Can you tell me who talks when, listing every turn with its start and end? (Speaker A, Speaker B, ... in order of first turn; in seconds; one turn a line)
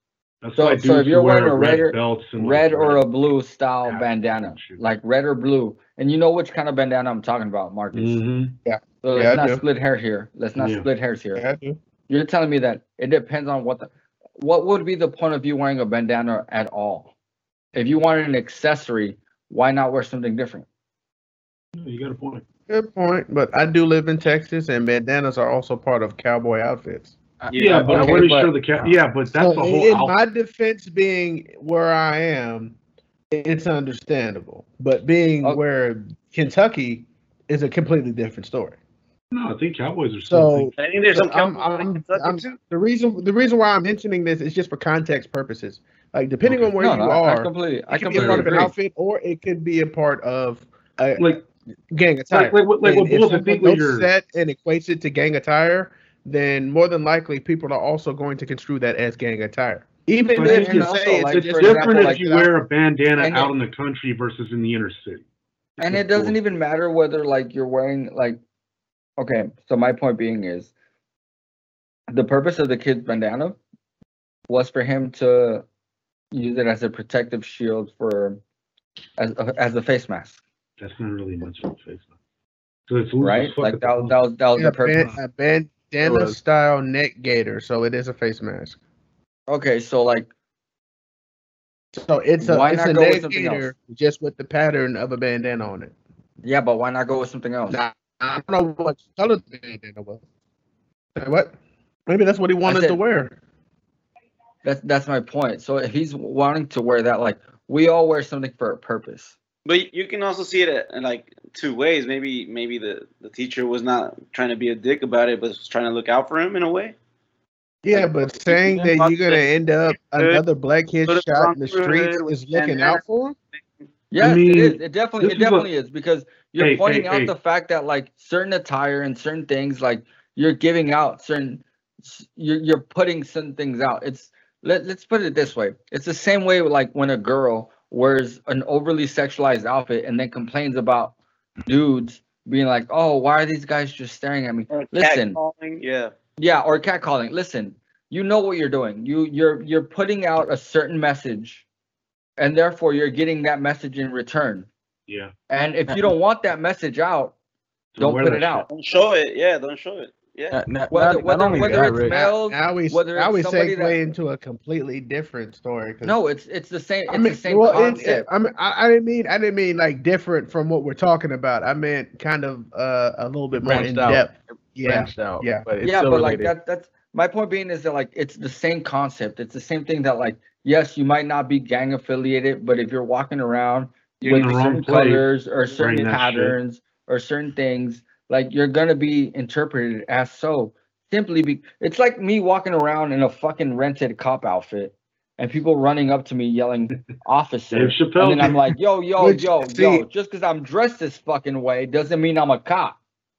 Speaker A: 0.4-3.0
Speaker B: 0.5-8.2
Speaker A: 3.8-4.8
Speaker A: 7.9-8.6
Speaker C: 8.7-9.6
Speaker B: 9.0-11.4
Speaker A: 10.6-10.9
Speaker C: 11.4-11.8
Speaker B: 12.1-17.1
Speaker B: 17.7-20.7
Speaker A: 21.7-22.4
Speaker C: 22.7-27.1
Speaker D: 27.4-28.9
Speaker E: 27.5-28.0
Speaker A: 27.5-30.1
Speaker C: 28.0-28.4
Speaker C: 29.3-32.8
Speaker C: 33.3-38.8
Speaker A: 39.3-40.7
Speaker C: 40.2-51.4
Speaker E: 40.8-42.6
Speaker B: 46.8-48.7
Speaker A: 48.1-48.5
Speaker C: 51.9-62.5
Speaker A: 52.3-54.1
Speaker A: 60.3-65.2
Speaker B: 60.4-62.3
Speaker B: 63.2-63.5
Speaker B: 65.8-68.4
Speaker A: 65.8-66.4
Speaker B: 69.2-70.7
Speaker B: 72.1-73.6
Speaker B: 74.5-75.6
Speaker B: 76.3-78.4
Speaker B: 79.2-80.4
Speaker A: 80.8-82.1
Speaker A: 82.9-84.2
Speaker B: 83.2-85.1
Speaker C: 84.5-88.8
Speaker D: 86.0-86.4
Speaker B: 89.5-90.3
Speaker C: 91.9-95.9
Speaker B: 92.4-93.7
Speaker B: 96.4-97.8
Speaker C: 97.7-100.2
Speaker C: 101.1-103.4
Speaker B: 102.7-103.0
Speaker B: 104.6-109.4
Speaker E: 109.7-116.9
Speaker C: 117.8-123.4
Speaker E: 117.9-119.5
Speaker E: 120.2-120.4
Speaker E: 121.1-123.0
Speaker B: 124.1-141.1
Speaker A: 124.2-125.7
Speaker A: 126.6-127.3
Speaker B: 141.7-145.4
Speaker E: 144.7-146.1
Speaker B: 146.4-151.6
Speaker B: 152.4-154.7
Speaker B: 155.5-157.3
Speaker A: 157.9-158.7
Speaker B: 158.0-158.7
Speaker E: 158.7-160.6
Speaker D: 160.5-162.1
Speaker B: 160.9-164.0
Speaker C: 161.9-166.2
Speaker B: 166.0-168.3
Speaker C: 167.1-175.6
Speaker D: 173.5-176.5
Speaker B: 175.8-202.9
Speaker A: 184.2-186.6
Speaker A: 197.7-198.8
Speaker C: 199.2-200.0